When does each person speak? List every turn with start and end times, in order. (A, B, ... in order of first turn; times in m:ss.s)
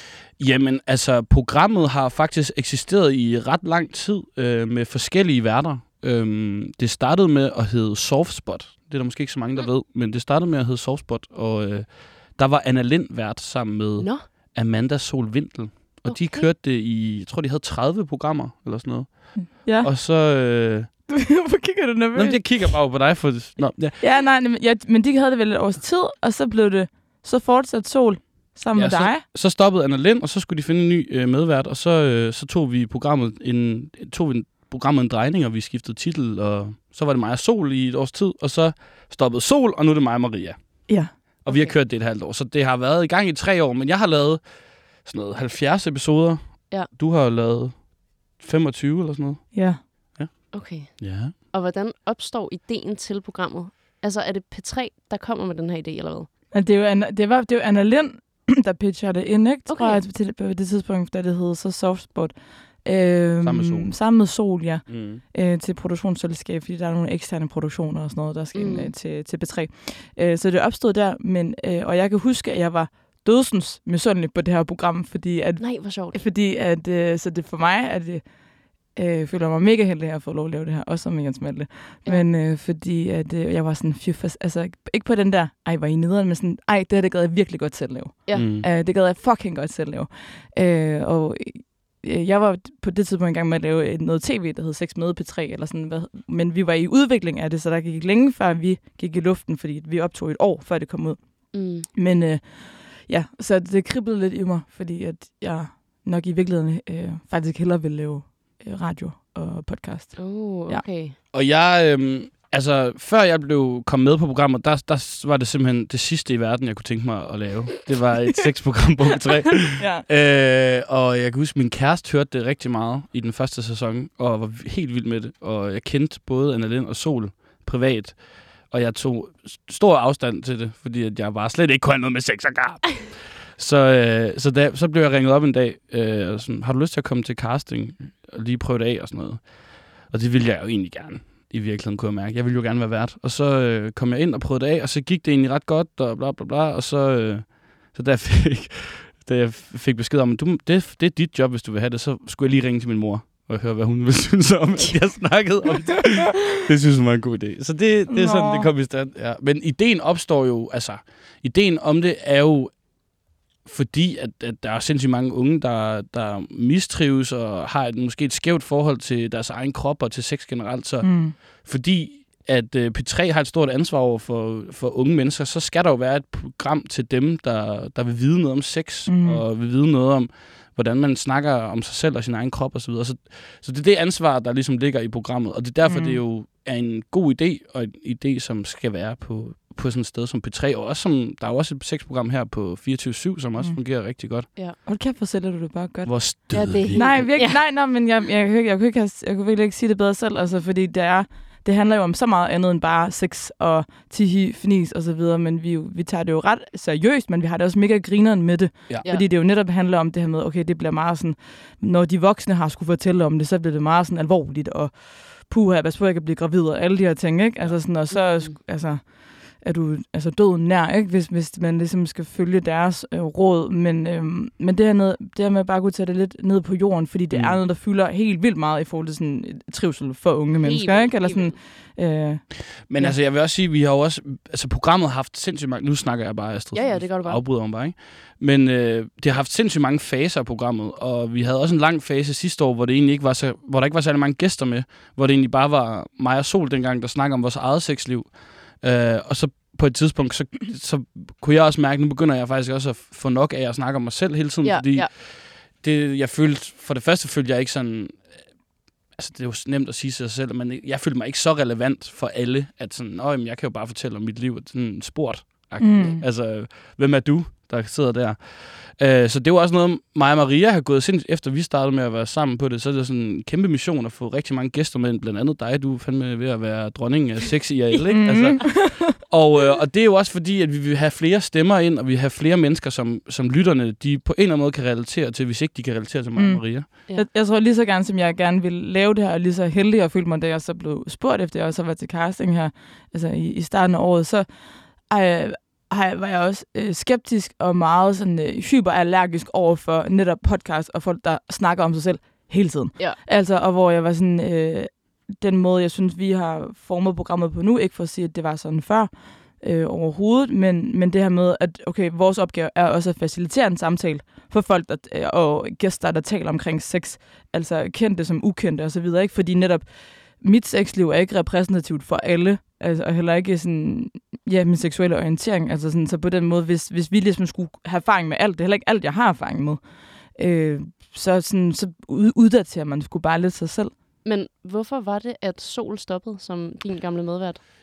0:00.4-0:20.9 A
0:14.0-0:14.3 B
0:16.1-0:16.5 B
0:19.4-0:19.9 C
0:21.1-0:22.5 C
0:22.1-0:24.0 A
0:24.0-0:29.2 C
0:28.7-0:51.4 A
0:41.5-0:41.8 B
0:49.5-0:49.8 C
0:50.5-0:56.3 B
0:56.5-1:18.3 C
0:59.7-1:00.0 B
1:03.4-1:04.0 A
1:04.9-1:05.2 A
1:08.5-1:08.9 B
1:15.6-1:16.2 B
1:18.9-1:50.8 C
1:28.3-1:28.7 A
1:41.5-1:41.9 B
1:50.2-1:51.2 B
1:51.3-2:42.8 A
1:59.8-2:00.0 C
2:38.1-2:38.7 C
2:43.6-3:14.5 A
2:51.0-2:51.4 C
2:59.1-2:59.4 C
3:05.8-3:06.2 C
3:14.9-3:53.2 C
3:16.0-3:17.1 A
3:16.5-3:17.6 B
3:38.1-3:38.5 B
3:47.3-3:47.6 A
3:50.6-3:51.6 B
3:52.8-4:18.4 A
3:56.7-3:57.4 B
4:14.6-4:15.1 B
4:19.1-4:46.9 A
4:25.8-4:26.2 C
4:38.1-4:39.1 C
4:46.4-4:54.5 C
4:55.1-5:29.8 C
5:30.4-5:33.9 C
5:34.2-5:37.6 B